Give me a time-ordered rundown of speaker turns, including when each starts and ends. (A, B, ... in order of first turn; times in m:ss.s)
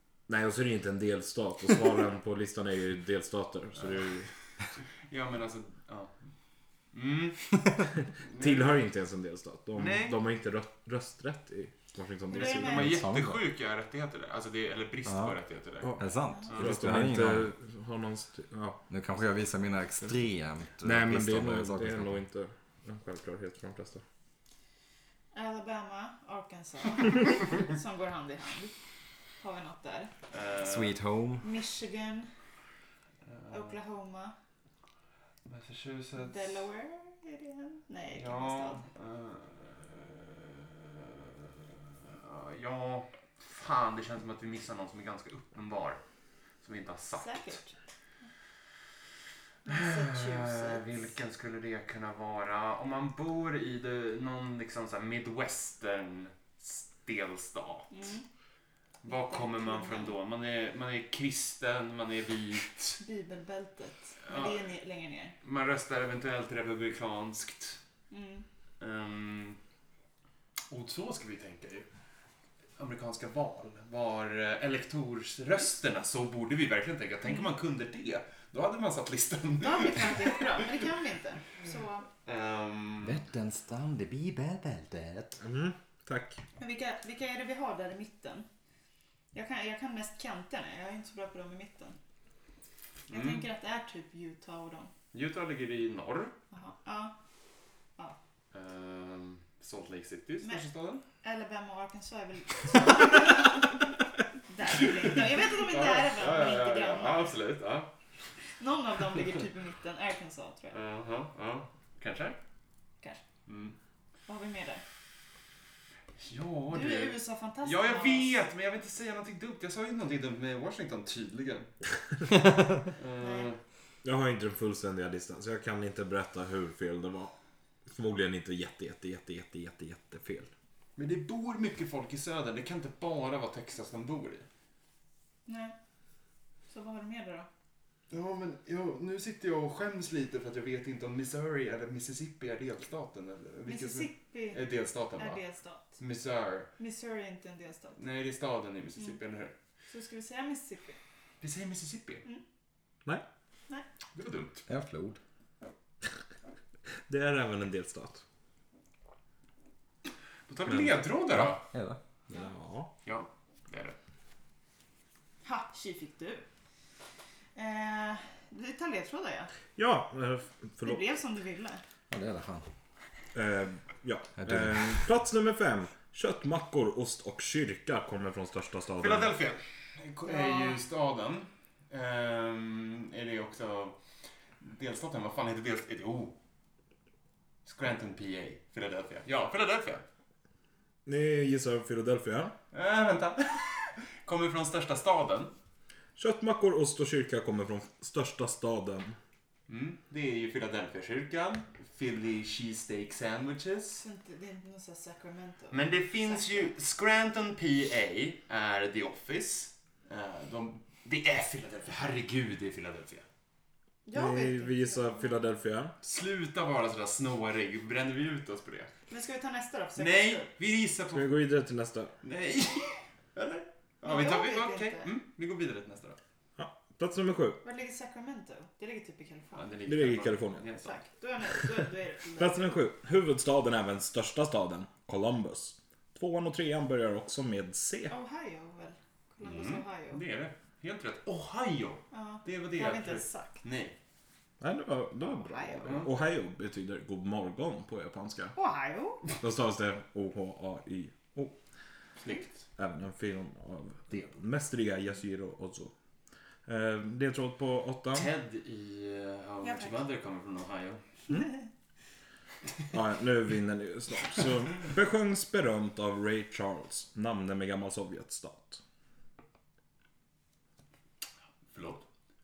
0:00.3-0:04.3 A
0:05.1-0:06.2 B
0:06.9-0:07.5 B
0:08.2-0:08.7 B
0:08.4-0:13.3 A
0:09.8-0:10.2 B
0:12.3-0:13.0 C
0:12.3-0:16.0 B
0:13.0-0:13.3 D
0:15.1-0:15.3 D
0:16.0-0:17.5 D
0:16.5-0:18.8 A
0:18.9-0:22.2 D
0:20.8-0:24.0 A
0:25.3-0:28.7 C
0:29.4-0:30.1 C
0:30.3-0:31.0 B
0:30.6-0:31.5 D
0:31.4-0:32.3 C
0:33.3-0:33.8 B
0:33.5-0:34.3 C
0:35.4-0:36.6 B
0:36.2-0:38.8 C
0:38.1-0:46.0 B
0:46.6-0:47.6 B
0:47.2-0:47.7 C
0:49.6-0:50.8 C
0:49.7-0:58.0 B
0:57.9-0:58.2 C
0:59.0-1:00.1 C
0:59.0-1:03.0 B
1:03.0-1:05.3 C
1:04.2-1:04.6 B
1:05.4-1:07.8 B
1:08.1-1:08.4 C
1:08.8-1:09.6 B
1:10.7-1:11.9 B
1:12.8-1:20.8 B
1:19.6-1:22.1 C
1:22.2-1:23.2 B
1:23.0-1:25.4 D
1:25.4-1:26.4 A
1:26.6-1:28.4 C
1:29.3-1:32.0 C
1:33.1-1:33.4 B
1:33.1-1:34.9 C
1:35.1-1:36.4 B
1:36.5-1:37.1 C
1:38.5-1:41.0 B
1:41.2-1:43.8 C
1:44.5-1:47.3 C
1:45.0-1:47.9 B
1:48.6-1:50.8 C
1:50.7-1:52.4 B
1:53.5-1:53.7 B
1:54.2-1:54.8 C
1:56.2-2:01.7 B
1:56.7-1:58.3 C
2:02.3-2:02.8 D
2:03.0-2:03.6 B
2:03.2-2:03.5 C
2:04.0-2:07.3 A
2:07.9-2:10.5 A
2:11.0-2:14.5 B
2:15.4-2:15.7 C
2:16.7-2:17.5 C
2:18.1-2:25.4 B
2:23.6-2:24.6 C
2:25.2-2:26.0 C
2:26.0-2:26.7 B
2:26.8-2:28.0 C
2:28.0-2:29.5 B
2:29.9-2:31.0 C
2:31.4-2:32.2 B
2:34.1-2:34.6 B
2:34.7-2:35.2 D
2:37.1-2:38.2 A
2:40.5-2:41.6 B
2:40.7-2:41.0 A
2:41.3-2:42.0 D
2:42.3-2:42.9 A
2:43.0-2:44.0 B
2:45.4-2:46.4 C
2:47.5-2:49.5 C
2:49.8-2:51.0 A
2:50.8-2:51.8 C
2:52.1-2:52.7 D
2:53.3-2:59.3 A
2:54.4-2:54.9 D
2:59.0-3:04.0 B
3:00.2-3:00.8 C
3:04.6-3:06.4 B
3:07.6-3:10.0 B
3:11.0-3:12.5 A
3:12.7-3:15.5 B
3:16.2-3:19.2 A
3:19.7-3:24.0 B
3:24.0-3:26.7 C
3:25.7-3:33.2 B
3:34.0-3:35.4 C
3:34.1-3:35.9 A
3:36.0-3:38.9 B
3:39.1-3:40.5 C
3:40.0-3:41.3 B
3:41.1-3:42.1 A
3:42.2-3:46.2 B
3:44.0-3:45.1 C
3:46.6-3:47.6 A
3:47.6-3:49.7 C
3:49.5-3:51.0 B
3:49.9-3:50.7 A
3:50.8-3:52.6 C
3:52.4-3:58.1 A
3:58.1-4:00.2 C
3:59.4-4:04.0 B
4:02.1-4:03.6 C
4:04.6-4:08.5 A
4:05.2-4:06.1 C
4:05.8-4:06.1 B
4:08.6-4:09.2 C
4:09.4-4:11.5 A
4:12.2-4:12.6 B
4:12.8-4:15.9 A
4:16.6-4:18.3 A
4:18.1-4:21.0 B
4:19.6-4:20.0 C
4:22.9-4:28.8 A
4:31.7-4:32.0 B